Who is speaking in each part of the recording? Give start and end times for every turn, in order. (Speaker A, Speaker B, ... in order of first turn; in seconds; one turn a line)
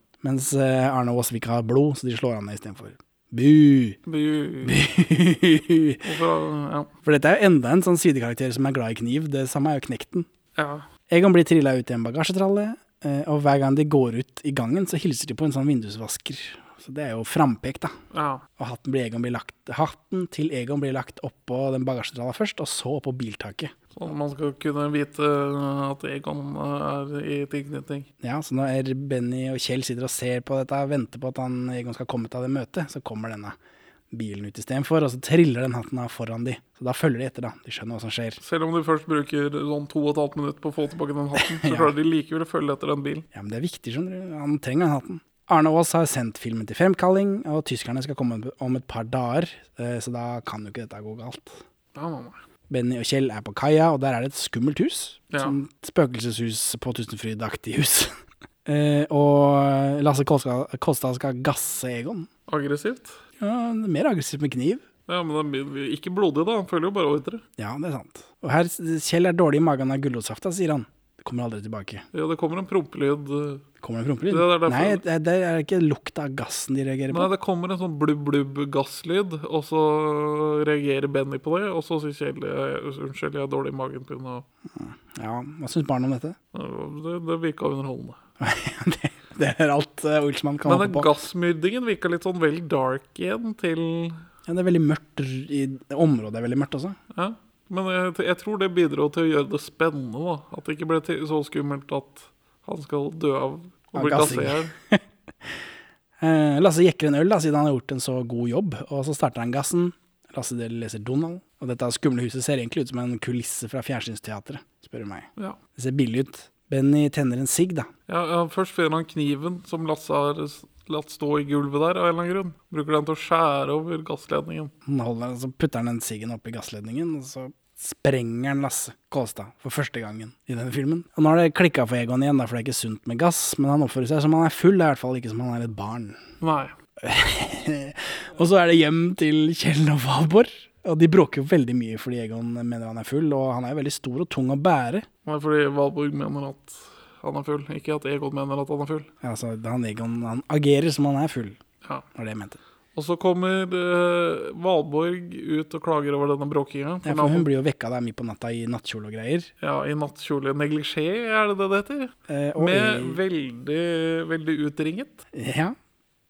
Speaker A: 0.2-4.0
Speaker B: 4.1-4.8
Speaker A: 4.6-6.0
Speaker B: 6.0-6.9
Speaker A: 7.0-10.3
Speaker B: 10.6-10.9
Speaker A: 11.1-17.9
Speaker B: 18.1-18.4
Speaker A: 18.6-23.7
Speaker B: 23.9-28.1
Speaker A: 28.2-33.6
Speaker A: 34.1-38.4
Speaker B: 38.4-43.3
Speaker A: 41.5-41.9
Speaker A: 43.3-51.6
Speaker B: 52.0-52.4
Speaker A: 52.7-58.1
Speaker B: 55.3-55.6
Speaker A: 58.7-62.3
Speaker B: 62.5-63.2
Speaker A: 63.4-64.8
Speaker B: 65.1-67.4
Speaker A: 67.6-72.0
Speaker B: 72.1-73.6
Speaker A: 73.8-77.3
Speaker B: 74.3-75.0
Speaker B: 77.1-84.5
Speaker A: 84.8-86.4
Speaker B: 86.5-88.2
Speaker A: 88.4-91.1
Speaker B: 90.7-94.2
Speaker A: 94.5-97.0
Speaker B: 97.1-104.7
Speaker A: 103.9-105.0
Speaker A: 106.2-117.9
Speaker B: 118.1-124.7
Speaker A: 124.8-136.2
Speaker B: 136.4-136.7
Speaker A: 137.0-145.1
Speaker B: 145.2-149.1
Speaker A: 149.2-151.6
Speaker A: 152.2-152.6
Speaker B: 152.9-157.5
Speaker A: 157.1-159.5
Speaker B: 159.6-165.2
Speaker A: 162.3-163.2
Speaker A: 165.3-165.8